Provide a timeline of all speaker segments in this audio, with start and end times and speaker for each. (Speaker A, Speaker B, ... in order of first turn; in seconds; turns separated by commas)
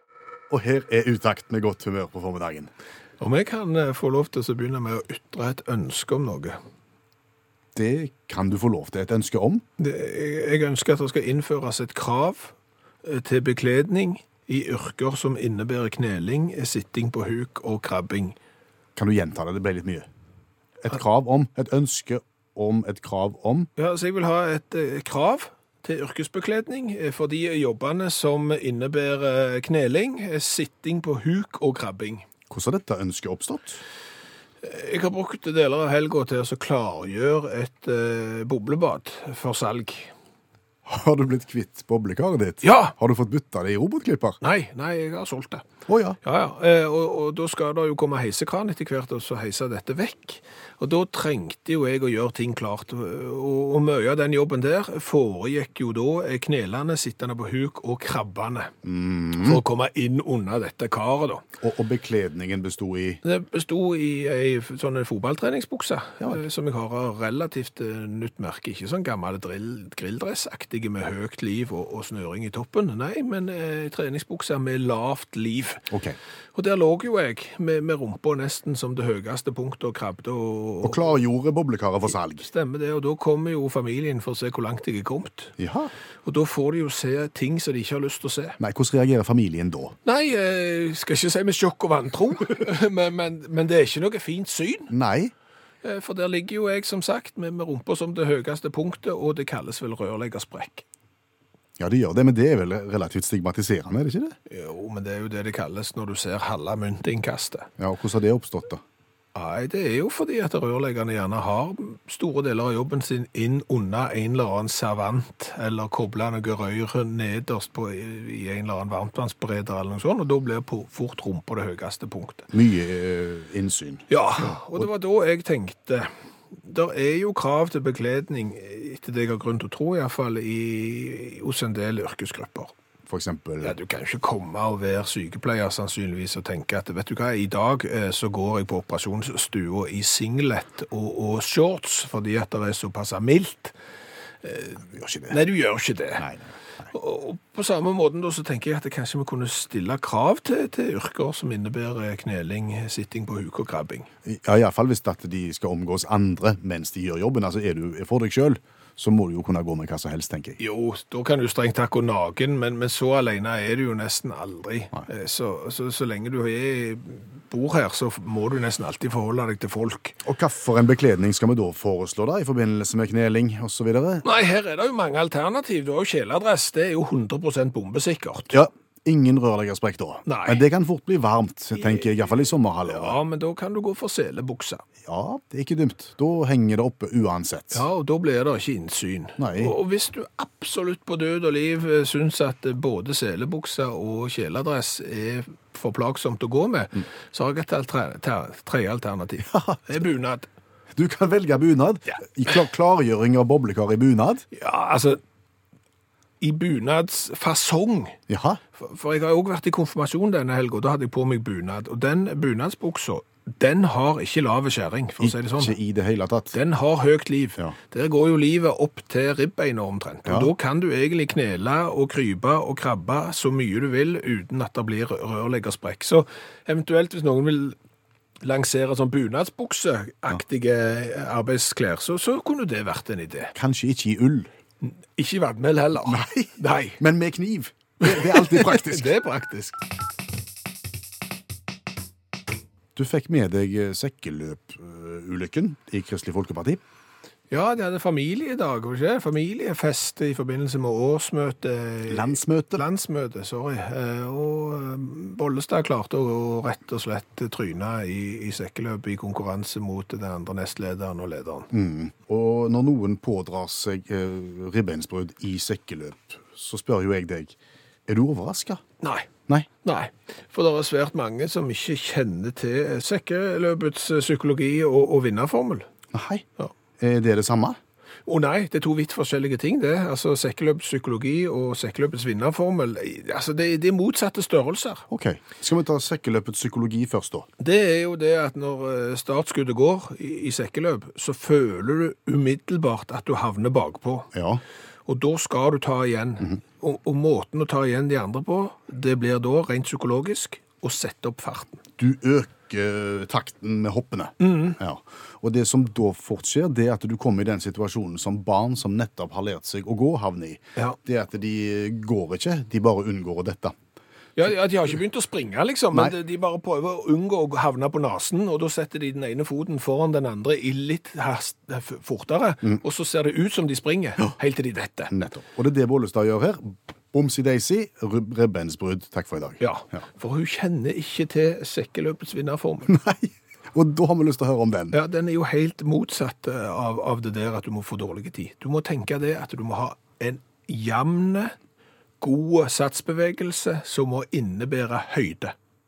Speaker A: 0.5-2.7, Speaker B: 3.2-6.6, Speaker A: 7.7-9.6, Speaker B: 9.8-12.5, Speaker B: 13.0-18.4, Speaker A: 18.9-20.1, Speaker A: 20.8-23.7, Speaker B: 23.8-32.2, Speaker A: 32.5-33.8, Speaker B: 34.6-40.1, Speaker A: 40.9-44.4, Speaker B: 42.6-42.9, Speaker B: 44.4-45.6, Speaker A: 45.9-46.2, Speaker B: 46.2-58.7, Speaker A: 58.8-59.6, Speaker B: 59.4-61.4, Speaker A: 61.6-63.2, Speaker B: 63.2-75.8, Speaker A: 75.9-76.2, Speaker B: 76.5-81.1, Speaker A: 80.8-82.5, Speaker B: 82.4-85.6, Speaker A: 85.6-85.9, Speaker B: 86.2-88.6, Speaker A: 88.6-89.9, Speaker B: 90.0-94.9, Speaker A: 94.9-95.3, Speaker B: 95.8-100.8, Speaker A: 101.8-104.3, Speaker B: 104.5-107.7, Speaker A: 107.8-108.8, Speaker B: 109.3-122.5, Speaker A: 122.5-124.8, Speaker B: 124.1-132.7, Speaker A: 133.1-133.8, Speaker B: 133.6-143.7, Speaker B: 144.4-146.2, Speaker A: 144.8-145.4, Speaker A: 146.2-146.5, Speaker B: 146.9-154.1, Speaker A: 154.2-160.6, Speaker B: 160.6-170.2, Speaker A: 170.2-174.2, Speaker B: 174.2-178.5, Speaker A: 178.5-183.2, Speaker B: 180.2-180.6, Speaker B: 181.8-184.8, Speaker A: 185.0-187.8, Speaker B: 187.7-200.5, Speaker A: 189.4-189.7, Speaker A: 199.5-199.9, Speaker A: 200.9-204.4, Speaker B: 204.5-205.2, Speaker B: 206.4-208.2, Speaker A: 208.3-208.6, Speaker B: 208.8-215.7, Speaker A: 215.2-216.6, Speaker B: 216.5-227.8, Speaker A: 220.2-220.5, Speaker B: 228.4-233.5, Speaker A: 233.5-234.5, Speaker B: 234.8-237.0, Speaker A: 236.0-239.1, Speaker B: 238.0-239.8, Speaker A: 242.9-246.8, Speaker B: 247.5-261.7, Speaker A: 252.1-252.8, Speaker A: 261.7-267.6, Speaker A: 268.1-268.8, Speaker B: 269.0-269.3, Speaker B: 269.8-275.9, Speaker A: 276.1-276.4, Speaker A: 277.0-277.8, Speaker B: 278.2-285.0, Speaker A: 285.1-287.5, Speaker B: 287.6-294.3, Speaker A: 294.3-294.6, Speaker B: 295.1-301.8, Speaker A: 302.0-313.7, Speaker B: 304.4-304.8, Speaker B: 314.4-325.1, Speaker A: 325.1-330.0, Speaker B: 329.6-333.0, Speaker A: 332.9-335.0, Speaker B: 334.9-341.5, Speaker B: 342.2-345.5